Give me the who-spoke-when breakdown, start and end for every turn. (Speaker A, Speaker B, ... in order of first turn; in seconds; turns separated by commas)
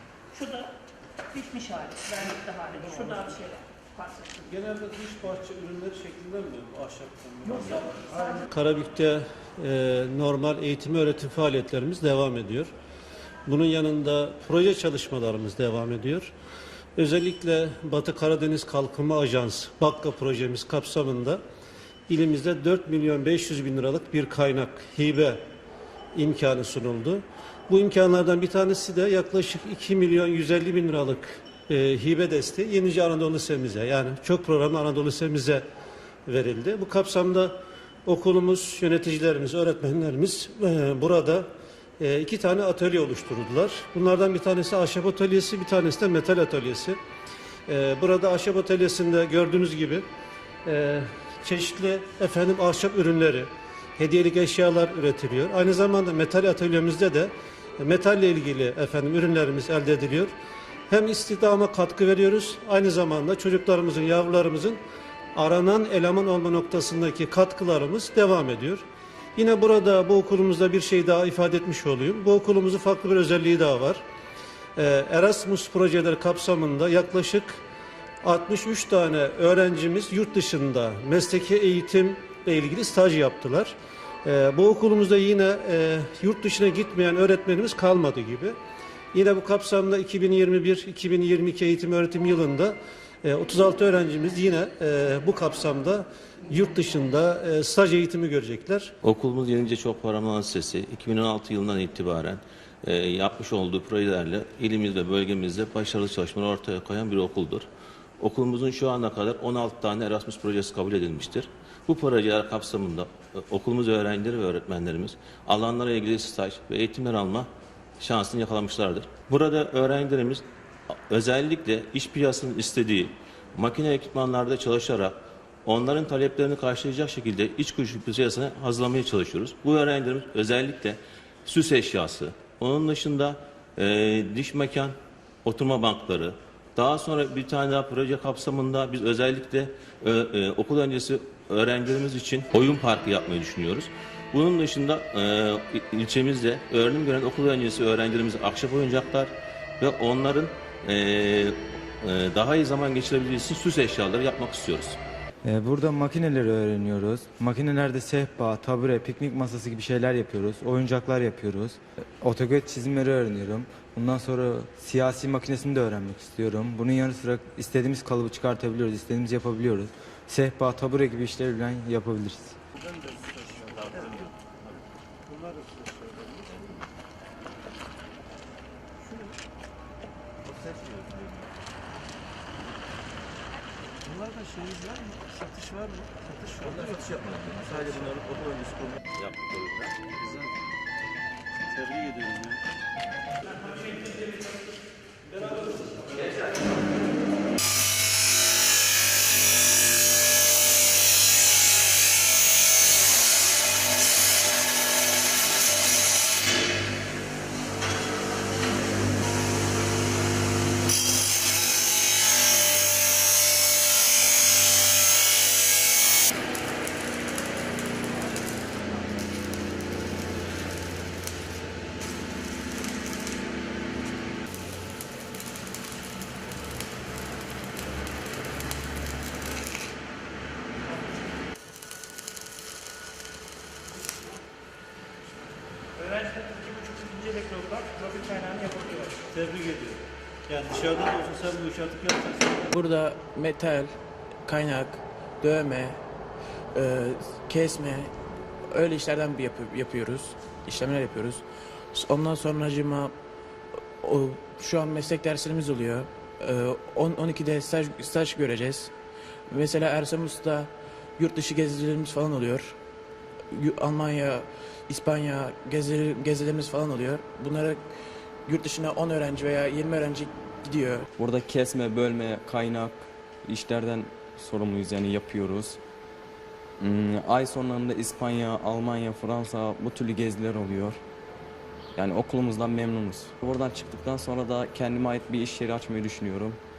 Speaker A: 0.3-0.7, Speaker A: 1.3-4.4, Speaker B: 4.4-12.7, Speaker B: 13.4-16.3, Speaker B: 16.9-21.4, Speaker B: 22.1-25.4, Speaker B: 26.1-35.6, Speaker B: 36.3-41.5, Speaker B: 42.0-47.0, Speaker B: 47.7-50.0, Speaker B: 50.6-60.3, Speaker B: 60.9-64.8, Speaker B: 65.3-68.8, Speaker B: 69.3-74.0, Speaker B: 74.8-77.6, Speaker B: 78.2-88.6, Speaker B: 89.1-98.9, Speaker C: 99.0-107.7, Speaker C: 108.2-117.5, Speaker C: 118.0-120.4, Speaker C: 121.0-155.0, Speaker D: 155.4-172.6, Speaker B: 172.9-174.2, Speaker B: 175.3-176.4, Speaker B: 184.1-186.1, Speaker C: 186.4-190.0, Speaker B: 191.7-192.6, Speaker A: 236.3-239.1, Speaker B: 239.3-242.7, Speaker E: 242.7-246.0, Speaker E: 246.7-248.1, Speaker E: 248.7-253.1, Speaker E: 254.0-258.9, Speaker E: 259.5-262.8, Speaker E: 263.5-267.8, Speaker E: 268.4-271.1, Speaker F: 271.2-275.8, Speaker F: 276.8-281.0, Speaker F: 281.9-286.6